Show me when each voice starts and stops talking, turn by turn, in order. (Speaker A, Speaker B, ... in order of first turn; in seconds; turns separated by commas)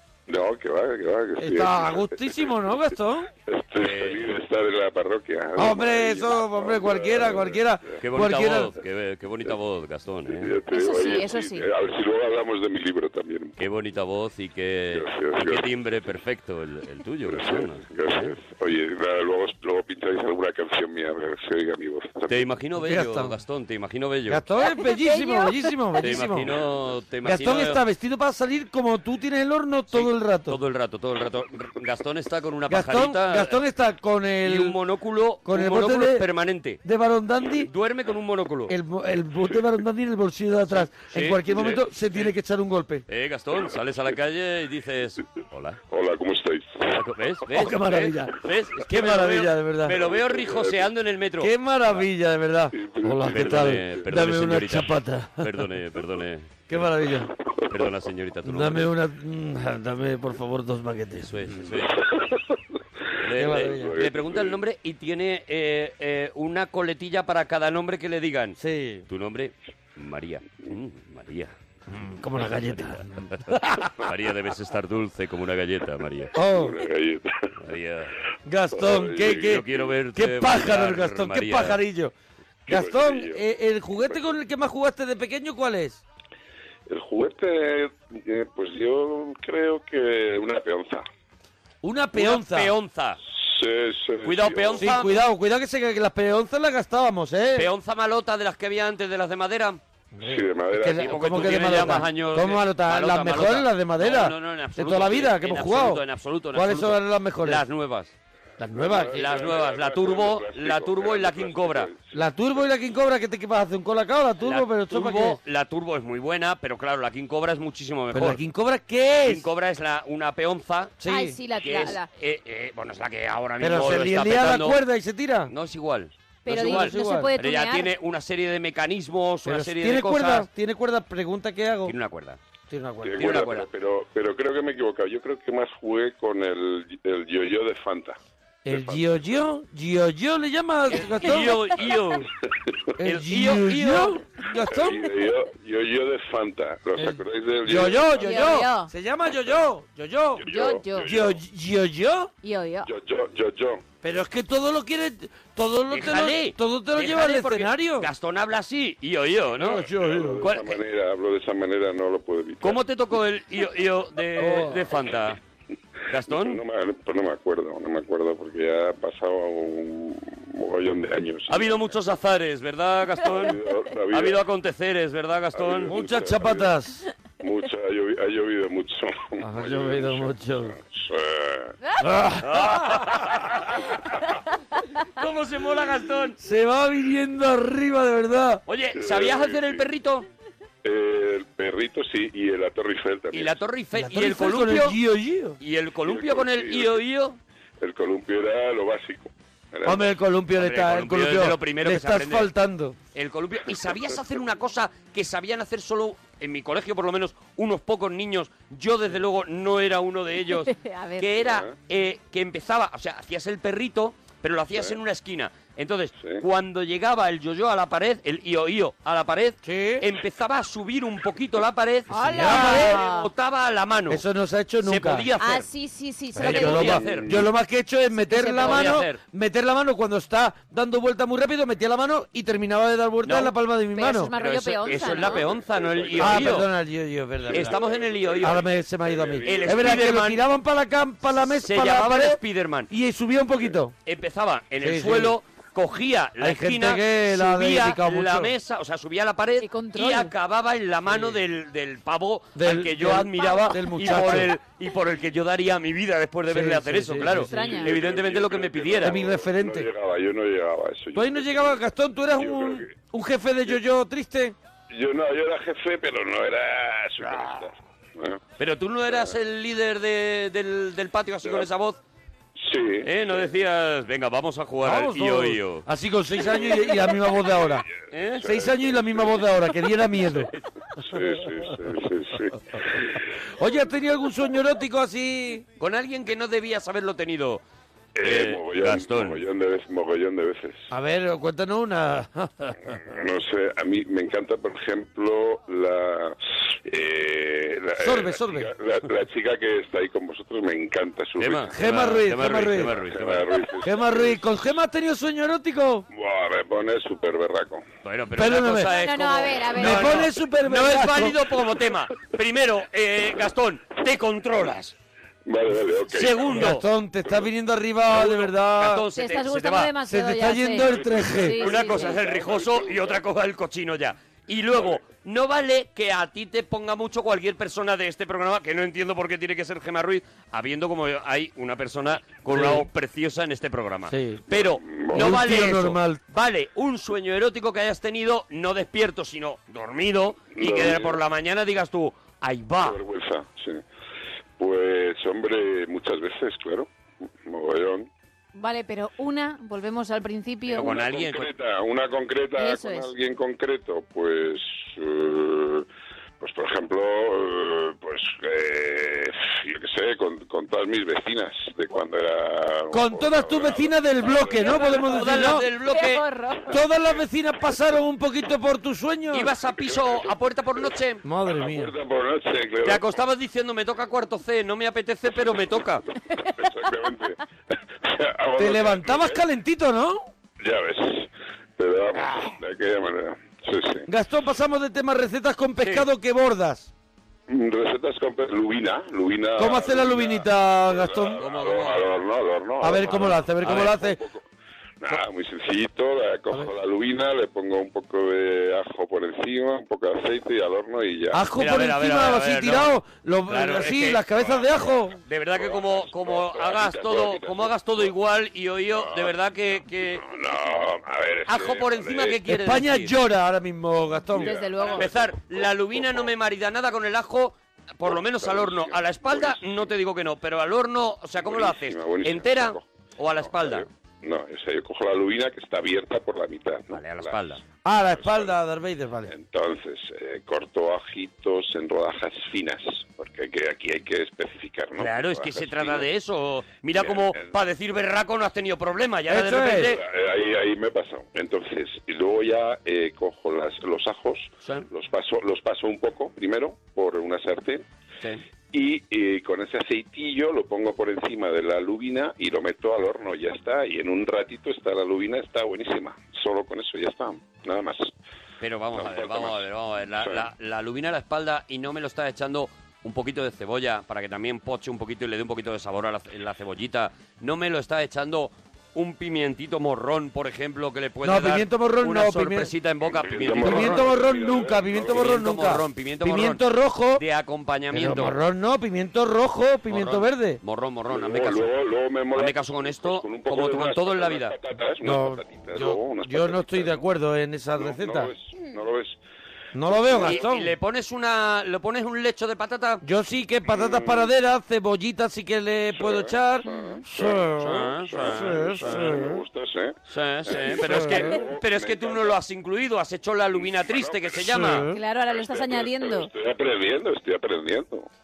Speaker A: 0.3-2.7, Speaker B: 1.4-3.3, Speaker A: 3.5-8.0, Speaker C: 3.8-4.2, Speaker B: 5.5-8.7, Speaker C: 8.0-10.6, Speaker A: 10.3-13.6, Speaker D: 10.7-11.7, Speaker C: 13.6-18.3, Speaker A: 14.9-15.8, Speaker A: 17.2-22.5, Speaker C: 22.3-24.4, Speaker B: 22.8-23.4, Speaker B: 24.3-26.5, Speaker D: 24.8-25.6, Speaker C: 26.0-27.8, Speaker B: 27.2-30.6, Speaker C: 29.9-33.6, Speaker B: 32.7-34.8, Speaker C: 34.4-36.8, Speaker B: 35.4-36.2, Speaker B: 36.8-37.7, Speaker C: 37.6-38.7, Speaker B: 38.7-43.0, Speaker C: 40.8-42.3, Speaker C: 43.1-45.8, Speaker A: 45.9-47.1, Speaker C: 46.8-52.0, Speaker B: 47.5-50.0, Speaker A: 49.9-50.9, Speaker B: 51.4-55.7, Speaker A: 52.7-54.3, Speaker C: 53.2-56.7, Speaker B: 56.7-57.3, Speaker A: 57.6-58.0, Speaker C: 57.7-58.9, Speaker B: 58.4-61.6, Speaker C: 61.3-61.9, Speaker A: 61.7-62.5, Speaker C: 63.2-71.5, Speaker A: 63.3-64.6, Speaker B: 63.3-64.0, Speaker B: 68.6-69.0, Speaker B: 71.9-73.9, Speaker C: 74.0-76.3, Speaker B: 76.3-76.8, Speaker A: 76.4-77.3, Speaker C: 77.6-78.1, Speaker B: 78.4-82.1, Speaker A: 78.7-80.0, Speaker C: 79.4-81.8, Speaker A: 82.7-83.4, Speaker B: 82.7-86.0, Speaker A: 84.0-84.3, Speaker A: 86.9-91.0, Speaker B: 91.8-92.7, Speaker C: 92.1-93.2, Speaker A: 93.3-95.0, Speaker C: 94.2-95.2, Speaker B: 94.8-97.7, Speaker C: 97.5-99.8, Speaker B: 100.1-107.6, Speaker A: 100.2-102.1, Speaker C: 100.9-108.1, Speaker B: 108.6-109.5, Speaker A: 108.7-112.2, Speaker C: 109.1-111.9, Speaker B: 112.1-115.4, Speaker C: 114.4-118.4, Speaker B: 118.1-119.5, Speaker C: 119.2-121.0, Speaker B: 121.0-121.4, Speaker D: 121.0-122.1, Speaker C: 121.5-124.8, Speaker B: 123.6-125.5, Speaker C: 125.5-130.5, Speaker D: 126.4-127.9, Speaker B: 126.5-127.3, Speaker B: 129.4-131.9, Speaker C: 131.8-132.4, Speaker B: 132.7-133.4, Speaker A: 133.0-139.1, Speaker C: 133.2-133.7, Speaker B: 138.6-141.6, Speaker C: 140.9-142.3, Speaker B: 143.0-145.2, Speaker C: 143.0-144.2, Speaker A: 144.7-148.2, Speaker B: 146.9-150.4, Speaker D: 148.1-148.9, Speaker A: 150.4-151.4, Speaker D: 150.5-151.1, Speaker B: 151.0-152.3, Speaker D: 152.4-152.9, Speaker A: 152.8-153.8, Speaker B: 154.0-158.1, Speaker C: 155.9-159.8, Speaker B: 159.6-160.5, Speaker A: 159.6-162.9, Speaker C: 160.4-160.8, Speaker C: 162.6-165.4, Speaker B: 164.4-164.9, Speaker C: 166.1-166.6, Speaker A: 166.2-172.0, Speaker C: 171.5-175.9, Speaker A: 173.2-174.5, Speaker A: 175.5-176.7, Speaker B: 175.8-177.0, Speaker A: 177.4-181.8, Speaker B: 179.4-180.8, Speaker B: 182.0-183.2, Speaker C: 182.4-183.7, Speaker C: 185.2-186.3, Speaker B: 186.4-188.6, Speaker C: 188.7-190.2, Speaker A: 188.9-189.9, Speaker A: 190.8-193.7, Speaker C: 193.3-195.0, Speaker B: 193.9-195.6, Speaker C: 195.6-197.4, Speaker A: 196.0-197.1, Speaker A: 197.8-200.1, Speaker B: 199.8-203.0, Speaker C: 200.5-202.5, Speaker C: 203.1-224.2, Speaker A: 203.8-204.2, Speaker D: 210.5-211.3, Speaker A: 211.4-211.8, Speaker A: 214.7-215.0, Speaker A: 216.2-216.4, Speaker B: 219.6-220.0, Speaker D: 222.1-223.3, Speaker B: 222.3-223.1, Speaker B: 224.1-225.3, Speaker C: 224.8-225.7, Speaker D: 225.4-227.0, Speaker B: 226.3-234.3, Speaker C: 226.4-227.4, Speaker A: 226.8-227.5, Speaker D: 228.2-229.0, Speaker C: 228.5-229.2, Speaker C: 233.2-233.5, Speaker D: 233.9-235.5, Speaker C: 234.3-236.7, Speaker A: 234.8-236.7, Speaker B: 236.2-237.8, Speaker A: 237.4-240.2, Speaker C: 237.5-238.6, Speaker B: 238.4-243.9, Speaker C: 239.4-240.4, Speaker C: 241.6-242.9, Speaker C: 244.0-259.2, Speaker B: 244.8-245.4, Speaker B: 246.4-248.5, Speaker D: 249.6-250.3, Speaker B: 251.1-251.4, Speaker B: 252.5-254.5, Speaker B: 256.5-257.9, Speaker D: 257.5-257.9, Speaker A: 257.8-262.9, Speaker B: 259.0-259.9, Speaker B: 261.1-264.6, Speaker A: 264.9-268.4, Speaker C: 268.6-272.0, Speaker A: 269.1-269.3, Speaker A: 271.4-271.7, Speaker A: 272.6-273.6, Speaker C: 273.0-275.8, Speaker B: 274.8-277.9, Speaker A: 276.4-279.6, Speaker C: 278.1-278.5, Speaker B: 278.4-280.5, Speaker A: 280.3-283.2, Speaker B: 283.6-285.6, Speaker C: 285.8-287.6, Speaker A: 288.1-290.9, Speaker C: 288.2-289.4, Speaker B: 290.9-292.8, Speaker A: 292.9-301.8, Speaker B: 298.0-298.7, Speaker C: 301.4-303.5, Speaker B: 301.7-303.0, Speaker A: 302.7-304.4, Speaker B: 303.8-306.1, Speaker A: 306.1-307.9, Speaker C: 308.0-314.9, Speaker B: 308.3-308.9, Speaker D: 308.9-310.3, Speaker B: 309.7-311.4, Speaker A: 315.4-316.8, Speaker C: 316.1-316.8, Speaker B: 316.5-319.1, Speaker C: 318.1-319.9, Speaker D: 319.1-322.2, Speaker B: 320.0-321.7, Speaker A: 320.8-323.3, Speaker C: 321.6-343.0, Speaker A: 324.7-325.1, Speaker B: 332.5-332.9, Speaker B: 334.1-334.4, Speaker A: 334.5-335.6, Speaker B: 335.1-336.2, Speaker A: 340.5-341.2, Speaker A: 342.8-343.8, Speaker A: 344.6-346.9, Speaker A: 347.4-348.1, Speaker D: 348.5-351.0, Speaker A: 350.7-355.9, Speaker C: 350.7-351.5, Speaker D: 352.6-353.1, Speaker A: 356.4-364.8, Speaker B: 362.9-365.7, Speaker D: 364.6-366.8, Speaker C: 365.0-366.2, Speaker B: 366.7-369.5, Speaker C: 369.3-371.2, Speaker A: 369.6-373.2, Speaker B: 371.2-371.9, Speaker C: 372.8-376.0, Speaker A: 376.3-377.4, Speaker A: 378.0-379.4, Speaker B: 378.6-380.3, Speaker A: 380.6-384.1, Speaker B: 384.1-386.9, Speaker A: 387.5-394.4, Speaker B: 389.6-391.4, Speaker C: 391.4-392.1, Speaker B: 392.8-394.2, Speaker C: 393.6-393.9, Speaker A: 395.0-401.5, Speaker B: 401.3-405.2, Speaker C: 401.6-404.3, Speaker A: 404.3-408.2, Speaker C: 405.2-410.2, Speaker A: 408.9-412.4, Speaker C: 411.4-413.1, Speaker B: 412.4-414.6, Speaker A: 414.3-416.3, Speaker D: 414.4-415.1, Speaker C: 414.9-423.9, Speaker A: 418.0-419.9, Speaker A: 421.3-428.5, Speaker C: 426.9-427.6, Speaker B: 427.8-429.3, Speaker A: 429.3-436.1, Speaker C: 435.0-440.0, Speaker A: 436.9-437.6, Speaker B: 439.3-439.9, Speaker A: 439.8-447.9, Speaker A: 448.7-458.1, Speaker C: 458.6-474.1, Speaker A: 458.9-460.5, Speaker B: 471.2-472.7, Speaker A: 473.0-475.8, Speaker B: 473.5-477.2, Speaker C: 475.1-476.6, Speaker C: 477.1-478.4, Speaker B: 477.9-480.6, Speaker C: 479.9-481.7, Speaker A: 481.1-487.1, Speaker C: 482.3-484.6, Speaker B: 485.0-488.3, Speaker A: 487.8-489.2, Speaker B: 489.7-490.7, Speaker A: 489.8-490.5, Speaker C: 490.1-493.0, Speaker B: 493.0-499.4, Speaker A: 493.7-494.3, Speaker A: 495.9-502.4, Speaker C: 497.6-499.2, Speaker C: 500.1-504.9, Speaker B: 500.8-501.4, Speaker A: 503.5-508.1, Speaker B: 504.4-505.0, Speaker D: 504.9-506.3